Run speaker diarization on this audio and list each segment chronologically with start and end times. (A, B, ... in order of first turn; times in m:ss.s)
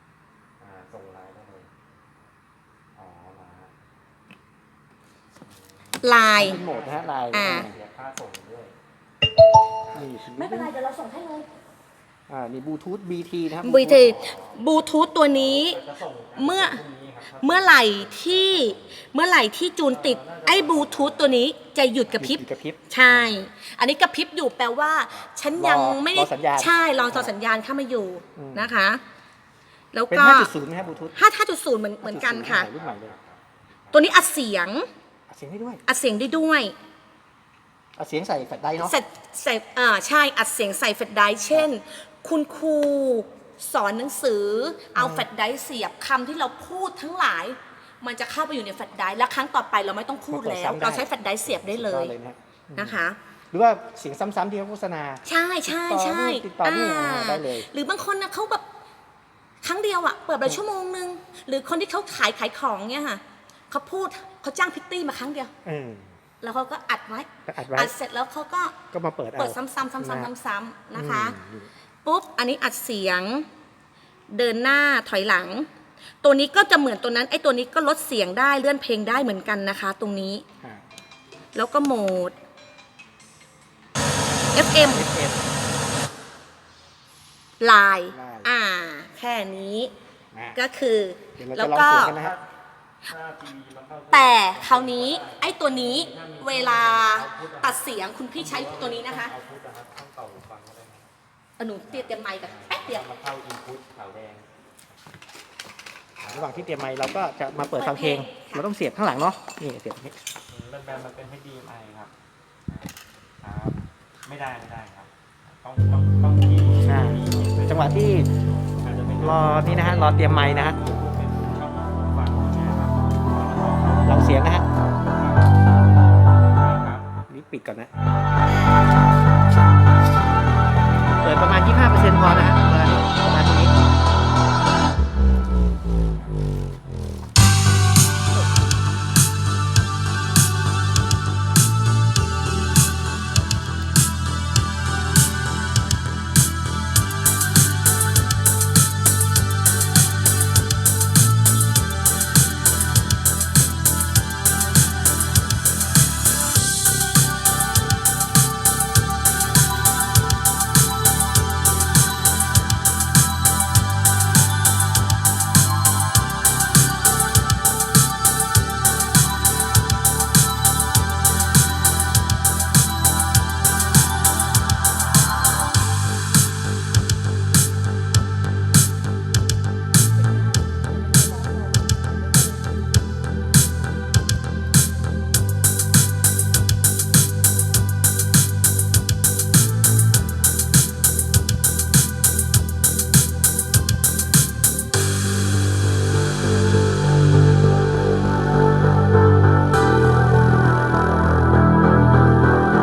0:00.6-0:01.7 A
0:03.0-0:03.7 A
0:05.4-0:08.8 A
0:06.0-0:06.6 B
0:06.4-0:07.8 C
0:07.3-0:07.7 B
0:09.8-0:10.1 A
0:09.9-0:10.7 C
0:10.3-0:11.5 B
0:12.3-0:14.2 C
0:13.6-0:15.8 B
0:14.0-0:14.6 A
0:15.3-0:18.9 A
0:16.4-0:16.8 B
0:17.4-0:29.0 B
0:19.8-0:21.4 A
0:22.2-0:23.4 C
0:25.6-0:27.3 C
0:28.4-0:28.7 C
0:29.9-0:30.5 B
0:30.1-0:31.2 C
0:30.7-0:31.1 A
0:31.1-0:32.7 B
0:32.0-0:33.2 C
0:32.5-0:34.2 A
0:33.9-0:34.9 B
0:35.3-0:35.8 C
0:35.9-0:36.7 B
0:38.0-0:39.0 C
0:38.8-0:52.1 B
0:45.0-0:45.3 C
0:50.3-0:53.0 C
0:52.7-0:53.2 B
0:53.5-0:57.7 C
0:55.3-0:58.6 B
0:59.6-1:05.5 B
1:05.6-1:06.1 C
1:06.4-1:08.8 B
1:07.5-1:07.9 C
1:08.9-1:10.3 C
1:09.4-1:11.4 B
1:11.0-1:11.7 C
1:12.0-1:13.5 B
1:14.3-1:15.7 B
1:16.2-1:20.4 B
1:21.6-1:22.4 B
1:24.5-1:25.1 B
1:24.6-1:25.5 C
1:27.6-1:29.9 B
1:28.1-1:28.5 C
1:30.5-1:32.2 B
1:31.4-1:32.4 C
1:32.0-1:32.4 A
1:33.0-1:37.8 A
1:34.1-1:39.3 B
1:38.3-1:41.1 A
1:41.6-1:43.0 B
1:41.9-1:44.5 A
1:46.2-1:50.2 C
1:46.3-1:46.7 A
1:47.7-1:48.6 B
1:50.5-1:52.1 A
1:53.4-1:58.1 A
1:56.8-1:58.3 C
1:58.8-2:07.1 A
1:59.2-2:00.8 C
2:04.0-2:04.7 C
2:07.3-2:07.9 C
2:11.1-2:13.7 C
3:00.3-3:02.5 B